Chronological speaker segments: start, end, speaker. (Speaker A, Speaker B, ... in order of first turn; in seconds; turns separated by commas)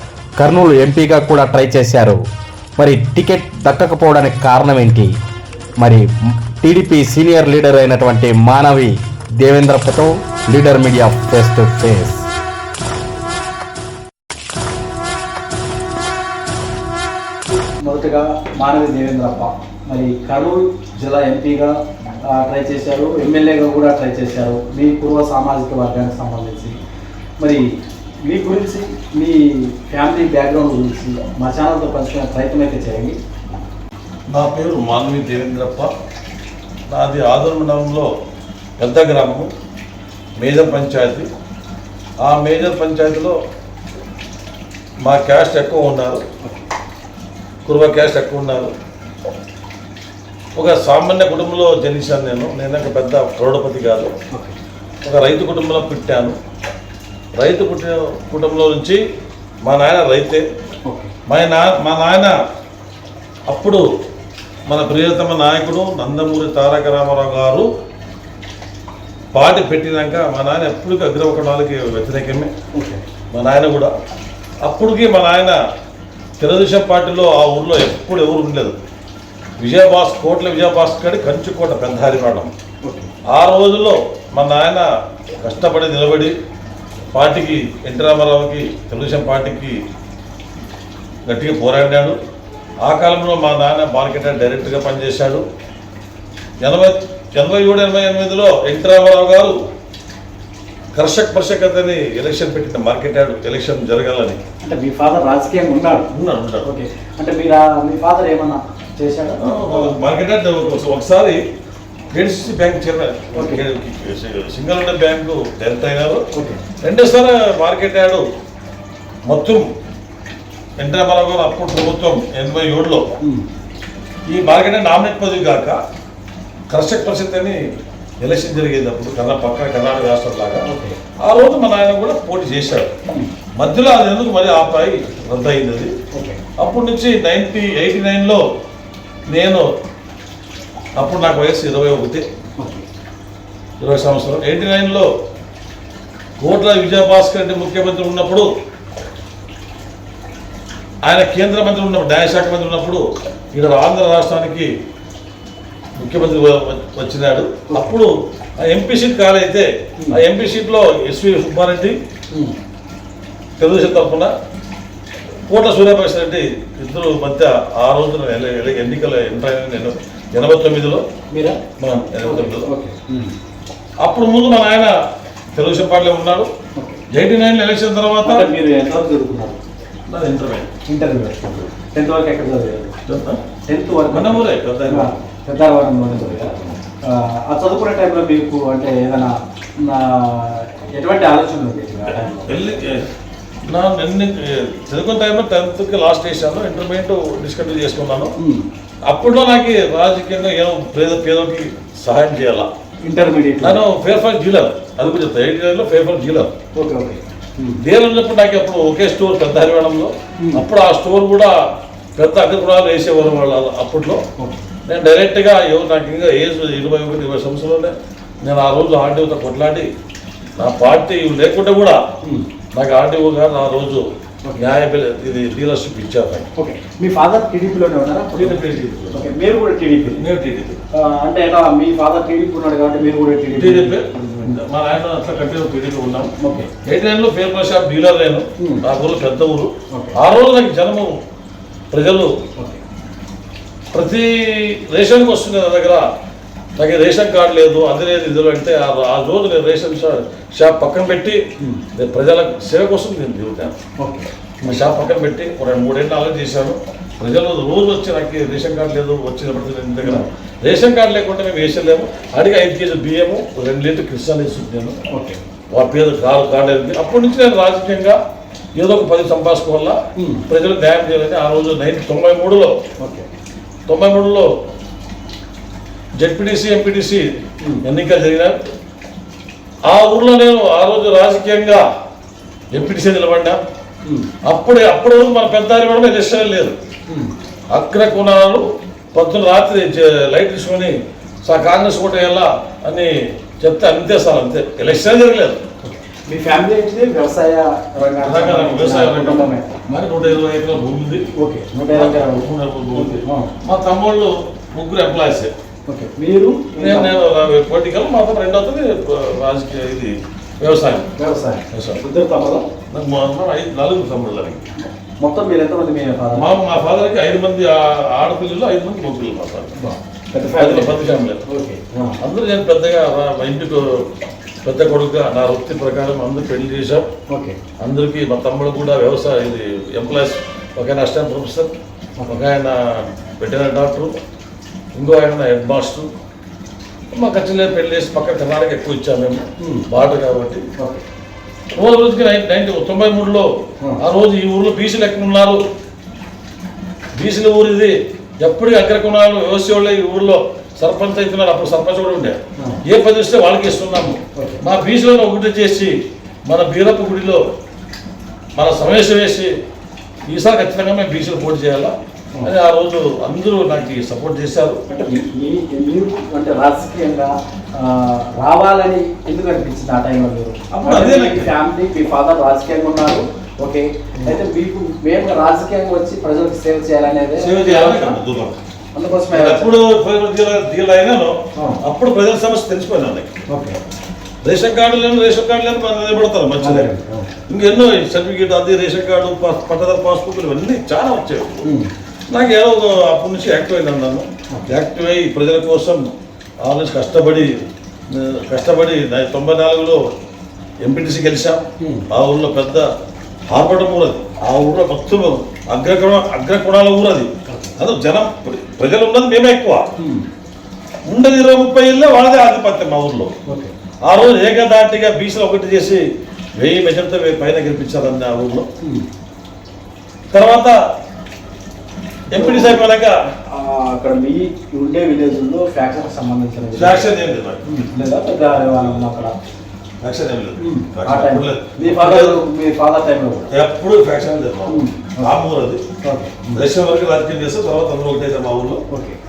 Speaker A: 0.4-2.2, Speaker A: 2.8-5.1, Speaker A: 5.8-12.2, Speaker B: 17.8-26.7, Speaker B: 27.4-33.2, Speaker C: 34.3-35.9, Speaker C: 36.9-38.1, Speaker C: 38.8-39.5, Speaker C: 40.4-41.3, Speaker C: 42.2-43.4, Speaker C: 45.0-46.2, Speaker C: 47.6-48.7, Speaker C: 50.5-54.1, Speaker C: 55.0-56.4, Speaker C: 57.4-59.0, Speaker C: 59.6-60.4, Speaker B: 60.9-61.1, Speaker C: 61.3-62.4, Speaker C: 63.5-63.8, Speaker C: 64.7-67.7, Speaker C: 69.3-72.5, Speaker B: 72.7-73.0, Speaker C: 73.3-73.9, Speaker C: 74.6-75.6, Speaker C: 76.4-78.8, Speaker C: 79.6-82.5, Speaker B: 82.8-83.1, Speaker C: 83.3-86.3, Speaker C: 87.1-89.8, Speaker C: 91.3-92.2, Speaker C: 92.8-95.4, Speaker C: 96.6-99.6, Speaker C: 100.9-104.4, Speaker B: 104.6-106.1, Speaker C: 106.1-106.7, Speaker B: 106.6-109.9, Speaker C: 109.4-111.4, Speaker C: 112.1-116.2, Speaker B: 113.3-113.6, Speaker B: 116.3-116.6, Speaker C: 116.8-118.2, Speaker C: 119.3-119.7, Speaker C: 120.8-123.1, Speaker B: 123.2-123.5, Speaker C: 124.3-125.8, Speaker C: 126.7-127.7, Speaker C: 128.2-130.6, Speaker B: 130.6-131.0, Speaker C: 131.2-132.9, Speaker C: 133.6-135.9, Speaker B: 136.1-136.4, Speaker C: 136.6-138.4, Speaker C: 139.3-139.7, Speaker C: 141.0-142.2, Speaker B: 142.6-142.8, Speaker C: 143.8-145.1, Speaker C: 146.4-148.5, Speaker C: 151.0-154.7, Speaker C: 156.0-162.0, Speaker B: 157.7-157.9, Speaker C: 163.6-164.3, Speaker C: 165.5-171.0, Speaker B: 171.3-171.6, Speaker C: 171.8-172.7, Speaker B: 172.1-173.3, Speaker C: 174.0-174.9, Speaker C: 175.5-176.5, Speaker B: 176.7-177.0, Speaker C: 177.1-178.5, Speaker B: 178.2-179.6, Speaker C: 180.1-180.7, Speaker B: 180.9-182.9, Speaker C: 183.1-183.4, Speaker B: 183.7-192.7, Speaker C: 184.1-185.2, Speaker C: 186.3-186.8, Speaker C: 192.1-193.1, Speaker C: 193.6-198.3, Speaker B: 198.4-198.7, Speaker C: 199.1-202.7, Speaker B: 203.0-203.8, Speaker C: 203.6-206.5, Speaker B: 206.7-207.8, Speaker C: 207.8-211.7, Speaker B: 210.4-210.6, Speaker C: 212.2-214.2, Speaker B: 214.4-214.6, Speaker C: 214.9-219.9, Speaker C: 220.6-222.1, Speaker B: 222.2-222.5, Speaker C: 222.7-226.5, Speaker B: 226.6-230.2, Speaker C: 228.4-229.3, Speaker C: 230.1-230.8, Speaker B: 230.9-234.6, Speaker C: 233.5-241.2, Speaker B: 236.4-236.7, Speaker B: 238.6-238.8, Speaker B: 239.9-240.2, Speaker C: 241.9-242.3, Speaker C: 243.9-246.1, Speaker C: 246.8-253.8, Speaker B: 251.6-251.8, Speaker B: 254.0-254.3, Speaker C: 254.6-265.0, Speaker B: 260.0-260.3, Speaker B: 265.1-265.4, Speaker C: 265.7-268.2, Speaker C: 268.8-272.8, Speaker B: 270.1-270.4, Speaker B: 273.0-273.3, Speaker C: 273.9-274.5, Speaker C: 276.2-277.2, Speaker B: 277.6-277.9, Speaker C: 277.8-278.5, Speaker C: 279.8-281.8, Speaker C: 282.7-283.6, Speaker B: 284.0-284.3, Speaker C: 284.4-286.8, Speaker B: 287.1-287.3, Speaker C: 287.7-295.6, Speaker B: 295.8-299.7, Speaker C: 298.2-301.2, Speaker B: 301.4-303.5, Speaker C: 301.9-305.5, Speaker B: 305.9-307.1, Speaker C: 306.8-311.1, Speaker B: 311.2-312.7, Speaker C: 311.7-312.0, Speaker C: 312.9-314.7, Speaker B: 314.8-316.5, Speaker C: 316.3-319.8, Speaker B: 319.8-322.2, Speaker C: 320.6-321.4, Speaker C: 322.2-324.1, Speaker C: 324.6-327.1, Speaker B: 327.3-327.6, Speaker C: 327.8-331.7, Speaker B: 332.2-332.4, Speaker C: 332.3-334.2, Speaker C: 334.9-336.1, Speaker C: 337.1-340.6, Speaker B: 339.6-339.9, Speaker C: 341.7-343.5, Speaker C: 344.0-345.6, Speaker C: 347.1-355.9, Speaker B: 354.3-354.6, Speaker C: 356.5-357.4, Speaker C: 358.6-359.5, Speaker C: 360.3-364.8, Speaker B: 364.9-378.2, Speaker C: 370.7-371.5, Speaker C: 377.4-378.6, Speaker B: 378.9-379.7, Speaker C: 379.3-383.4, Speaker B: 381.5-381.8, Speaker B: 383.5-383.8, Speaker C: 384.4-386.9, Speaker B: 386.6-387.3, Speaker C: 387.5-391.7, Speaker B: 391.6-391.9, Speaker C: 392.3-396.1, Speaker C: 396.6-400.0, Speaker C: 400.8-402.9, Speaker B: 401.8-402.1, Speaker C: 403.5-409.9, Speaker B: 407.4-407.8, Speaker B: 410.0-410.3, Speaker C: 411.1-413.3, Speaker B: 413.5-413.7, Speaker C: 414.1-416.0, Speaker C: 416.6-418.7, Speaker B: 418.8-419.1, Speaker C: 420.3-420.8, Speaker C: 422.3-423.2, Speaker B: 422.3-422.8, Speaker B: 423.4-427.1, Speaker C: 426.7-427.6, Speaker B: 427.6-429.4, Speaker C: 428.4-429.1, Speaker C: 430.0-432.4, Speaker B: 430.6-433.5, Speaker C: 433.5-435.8, Speaker B: 434.7-435.4, Speaker B: 436.0-436.4, Speaker C: 436.4-438.8, Speaker B: 438.9-439.2